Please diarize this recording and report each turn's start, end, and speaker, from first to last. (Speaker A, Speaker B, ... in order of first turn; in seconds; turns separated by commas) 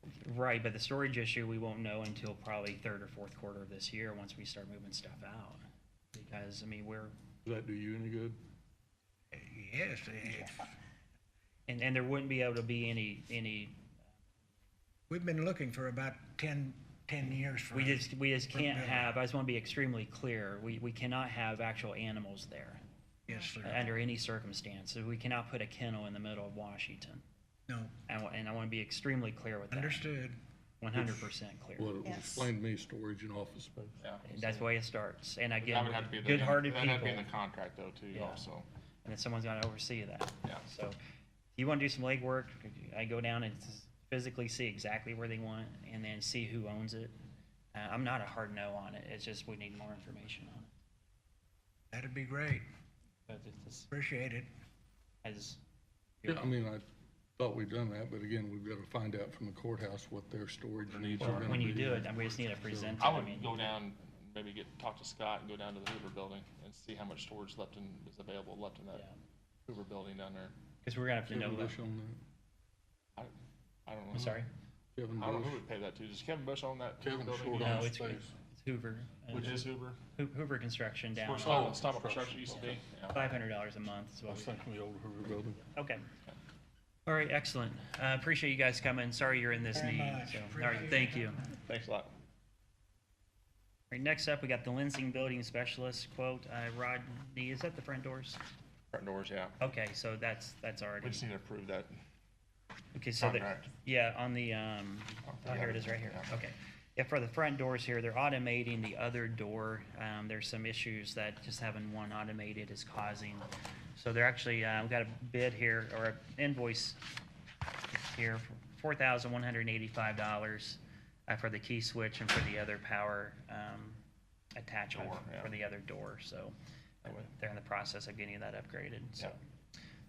Speaker A: 0.1-5.6, Speaker A: 6.1-7.1, Speaker B: 7.4-8.4, Speaker C: 9.3-10.7, Speaker A: 10.2-10.5, Speaker A: 11.7-13.8, Speaker C: 15.1-19.1, Speaker A: 17.7-22.8, Speaker C: 23.3-23.9, Speaker A: 23.6-27.2, Speaker C: 27.7-27.9, Speaker A: 28.1-30.1, Speaker C: 29.7-30.4, Speaker A: 30.8-32.1, Speaker B: 30.9-31.3, Speaker B: 31.8-34.0, Speaker D: 34.0-34.6, Speaker A: 34.2-37.3, Speaker D: 35.6-38.7, Speaker A: 38.1-38.4, Speaker A: 39.0-41.0, Speaker A: 41.6-47.1, Speaker A: 47.7-50.7, Speaker C: 51.9-52.7, Speaker A: 53.3-53.9, Speaker C: 53.9-54.5, Speaker A: 55.2-55.6, Speaker A: 56.2-56.5, Speaker B: 56.3-56.9, Speaker B: 57.4-63.0, Speaker A: 61.2-63.6, Speaker D: 61.2-61.5, Speaker D: 63.0-69.0, Speaker D: 69.7-70.5, Speaker A: 70.8-71.8, Speaker B: 71.3-72.2, Speaker D: 73.9-74.4, Speaker A: 74.1-74.5, Speaker B: 75.0-75.6, Speaker D: 75.2-77.9, Speaker B: 77.0-78.3, Speaker A: 77.6-81.8, Speaker D: 79.3-80.0, Speaker D: 81.2-83.2, Speaker B: 81.4-82.8, Speaker A: 82.6-84.6, Speaker B: 84.3-85.6, Speaker A: 85.7-86.1, Speaker A: 87.1-91.4, Speaker C: 89.7-91.3, Speaker D: 91.5-92.1, Speaker A: 93.9-98.4, Speaker D: 98.9-99.6, Speaker A: 99.6-101.2, Speaker D: 101.0-102.0, Speaker A: 102.9-117.0, Speaker D: 103.2-103.7, Speaker D: 105.3-106.3, Speaker A: 117.9-124.0, Speaker A: 124.6-126.5, Speaker D: 124.9-125.5, Speaker A: 127.1-129.4